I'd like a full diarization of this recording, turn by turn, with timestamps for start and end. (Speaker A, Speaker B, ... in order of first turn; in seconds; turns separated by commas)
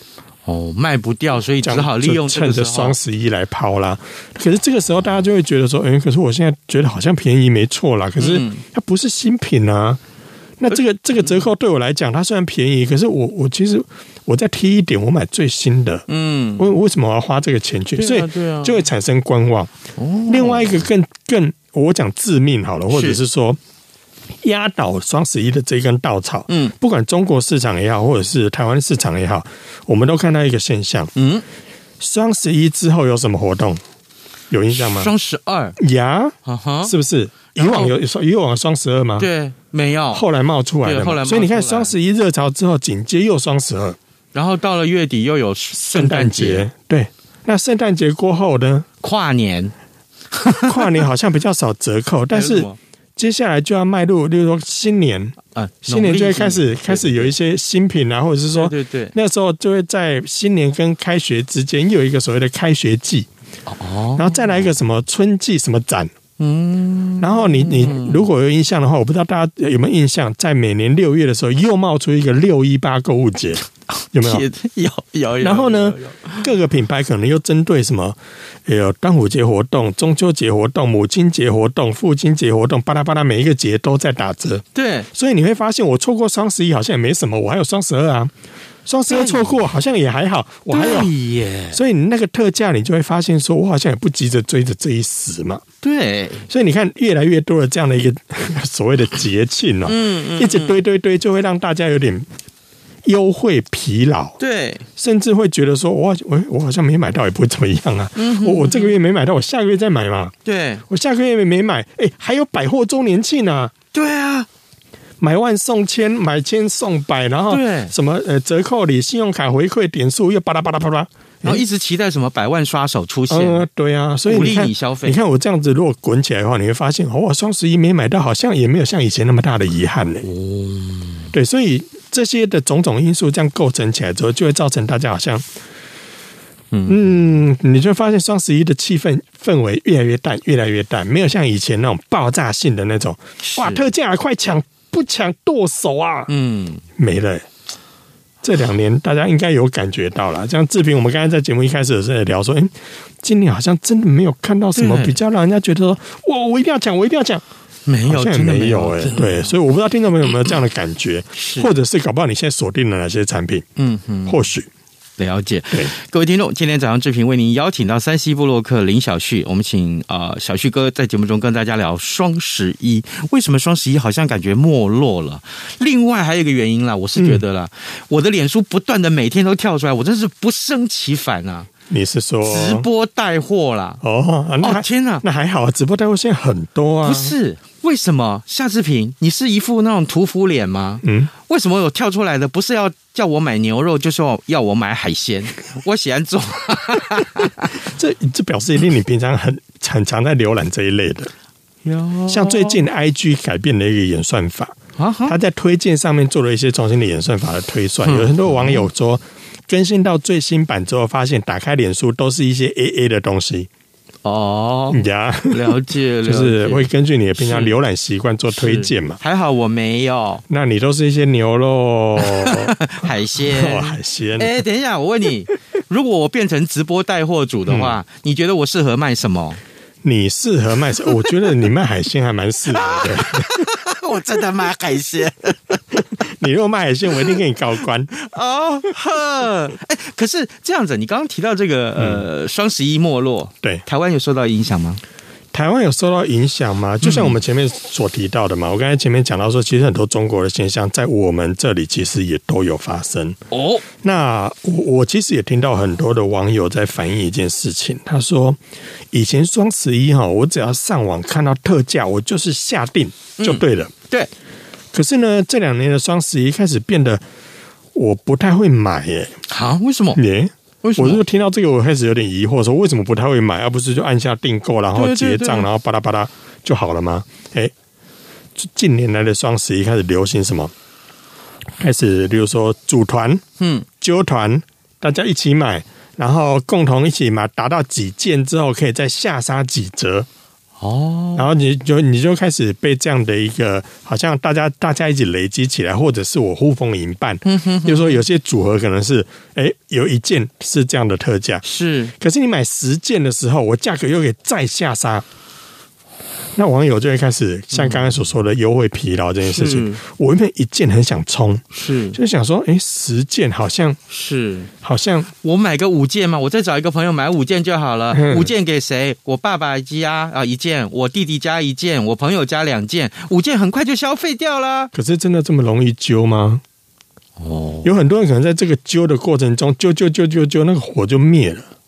Speaker A: 0.5-3.0, Speaker B: 1.6-10.0, Speaker A: 8.2-8.6, Speaker B: 10.6-16.1, Speaker A: 16.1-16.7, Speaker B: 16.6-19.7, Speaker A: 18.0-18.9, Speaker A: 20.0-20.8, Speaker B: 20.3-23.6, Speaker A: 22.9-23.2, Speaker B: 24.4-31.1, Speaker A: 31.2-31.4, Speaker B: 32.0-33.8, Speaker B: 34.5-35.1, Speaker A: 34.8-35.8, Speaker B: 35.8-39.3, Speaker A: 36.5-36.9, Speaker A: 37.5-38.0, Speaker A: 39.2-40.2, Speaker B: 40.1-44.0, Speaker A: 40.8-41.9, Speaker A: 44.3-46.7, Speaker B: 45.9-48.9, Speaker A: 49.0-49.7, Speaker A: 50.4-50.9, Speaker B: 50.5-63.3, Speaker A: 52.3-52.8, Speaker A: 55.5-57.3, Speaker A: 58.5-59.1, Speaker A: 63.7-64.6, Speaker B: 64.2-66.1, Speaker A: 66.4-68.3, Speaker B: 67.2-74.5, Speaker A: 74.2-76.5, Speaker B: 75.4-88.3, Speaker A: 84.8-85.1, Speaker B: 88.9-91.1, Speaker A: 89.1-89.5, Speaker A: 90.7-91.8, Speaker B: 91.7-95.6, Speaker A: 95.8-96.5, Speaker B: 96.5-102.3, Speaker A: 99.9-100.8, Speaker B: 103.0-104.4, Speaker A: 104.4-104.8, Speaker B: 105.0-110.3, Speaker A: 108.2-108.9, Speaker A: 110.5-110.8, Speaker B: 110.9-113.7, Speaker A: 113.9-114.5, Speaker B: 115.2-121.6, Speaker A: 117.5-117.9, Speaker A: 121.4-123.7, Speaker B: 123.3-130.3, Speaker A: 124.3-125.2, Speaker A: 130.2-131.3, Speaker B: 131.3-135.4, Speaker A: 136.7-137.0, Speaker B: 136.9-146.3, Speaker A: 143.4-143.8, Speaker A: 146.3-146.8, Speaker B: 147.0-147.5, Speaker B: 148.4-157.4, Speaker A: 154.8-155.2, Speaker A: 157.9-159.5, Speaker B: 158.1-163.7, Speaker A: 161.4-161.7, Speaker A: 163.8-164.4, Speaker B: 164.3-164.7, Speaker A: 165.2-181.7, Speaker B: 177.2-177.4, Speaker B: 181.9-182.9, Speaker A: 182.4-184.0, Speaker B: 184.0-187.3, Speaker A: 184.6-185.2, Speaker A: 187.0-197.7, Speaker B: 191.0-191.3, Speaker B: 197.8-201.3, Speaker A: 201.8-202.8, Speaker B: 202.3-213.7, Speaker A: 205.0-205.4, Speaker A: 208.0-208.8, Speaker A: 214.2-217.8, Speaker B: 214.9-219.2, Speaker A: 218.5-220.4, Speaker B: 220.5-222.8, Speaker A: 222.2-229.6, Speaker B: 223.4-224.6, Speaker B: 227.7-228.0, Speaker B: 230.0-233.7, Speaker A: 232.7-235.8, Speaker B: 236.2-238.1, Speaker A: 238.2-245.0, Speaker B: 242.0-242.2, Speaker B: 245.5-253.4, Speaker A: 247.0-247.4, Speaker A: 253.5-253.8, Speaker B: 254.0-258.6, Speaker B: 259.1-263.9, Speaker A: 263.4-264.3, Speaker B: 264.9-267.2, Speaker B: 267.9-269.4, Speaker A: 269.5-270.2, Speaker B: 270.1-277.7, Speaker A: 270.8-271.2, Speaker A: 274.9-275.7, Speaker B: 278.6-280.7, Speaker B: 281.8-283.4, Speaker A: 283.6-283.9, Speaker B: 284.0-290.3, Speaker A: 290.8-291.5, Speaker B: 291.4-301.6, Speaker A: 297.5-298.2, Speaker A: 301.6-302.1, Speaker B: 302.2-305.3, Speaker B: 306.6-314.0, Speaker A: 307.7-308.2, Speaker A: 309.5-310.0, Speaker A: 311.7-312.2, Speaker A: 314.1-314.7, Speaker B: 314.8-315.3, Speaker A: 315.4-324.9, Speaker B: 318.1-318.5, Speaker B: 324.9-326.6, Speaker A: 327.4-327.9, Speaker B: 327.8-331.7